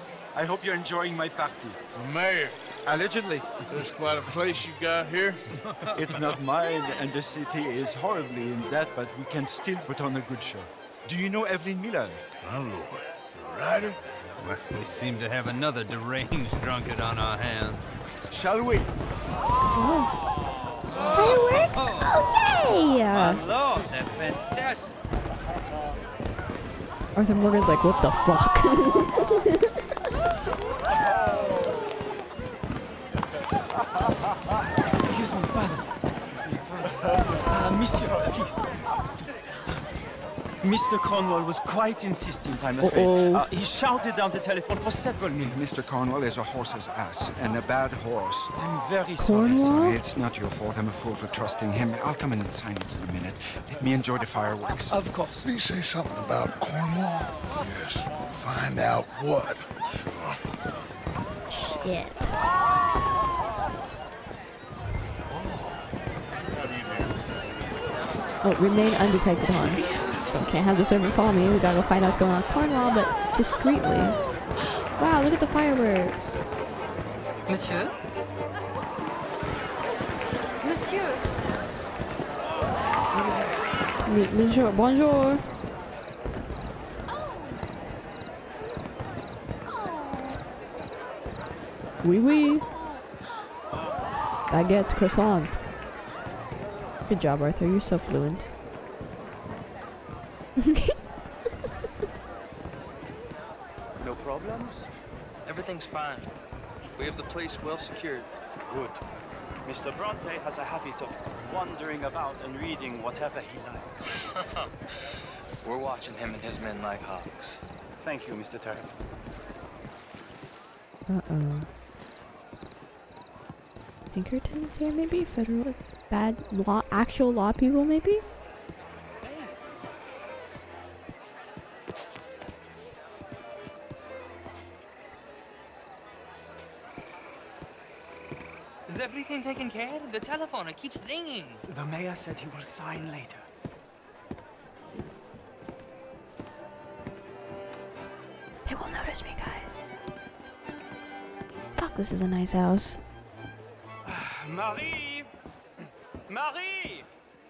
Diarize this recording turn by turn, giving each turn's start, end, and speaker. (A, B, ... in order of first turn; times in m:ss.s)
0:00.3-0:01.8 A
0:02.0-0:02.6 B
0:02.8-0:03.5 A
0:03.7-0:06.4 B
0:05.9-0:12.2 A
0:12.4-0:14.0 B
0:14.7-0:17.8 C
0:18.3-0:18.9 A
0:19.8-0:20.2 D
0:20.9-0:22.1 C
0:21.1-0:23.4 D
0:23.3-0:24.9 C
0:27.2-0:29.5 D
0:34.8-0:40.0 E
0:40.6-0:46.0 E
0:42.8-0:43.5 D
0:45.3-0:48.5 A
0:48.6-0:49.8 E
0:49.2-0:50.0 D
0:49.7-0:55.0 A
0:54.9-0:55.5 E
0:55.4-0:57.5 F
0:57.6-0:58.3 C
0:58.3-0:59.6 F
1:00.0-1:00.4 C
1:01.5-1:02.4 D
1:05.4-1:05.8 C
1:08.4-1:14.2 D
1:15.0-1:16.4 D
1:17.5-1:18.0 G
1:20.6-1:21.2 G
1:24.0-1:25.4 D
1:32.0-1:32.7 D
1:34.5-1:35.6 D
1:37.1-1:38.5 D
1:40.6-1:40.9 D
1:44.0-1:44.9 E
1:45.5-1:46.3 G
1:47.0-1:48.3 G
1:48.7-1:49.0 E
1:49.6-1:54.2 E
1:55.6-1:57.6 G
1:58.0-1:58.9 E
2:01.1-2:01.7 D
2:04.1-2:08.2 D
2:09.2-2:09.5 G
2:18.9-2:21.6 G
2:21.7-2:23.4 E
2:28.7-2:29.8 D
2:31.8-2:33.0 D
2:34.0-2:35.3 E
2:36.3-2:37.0 E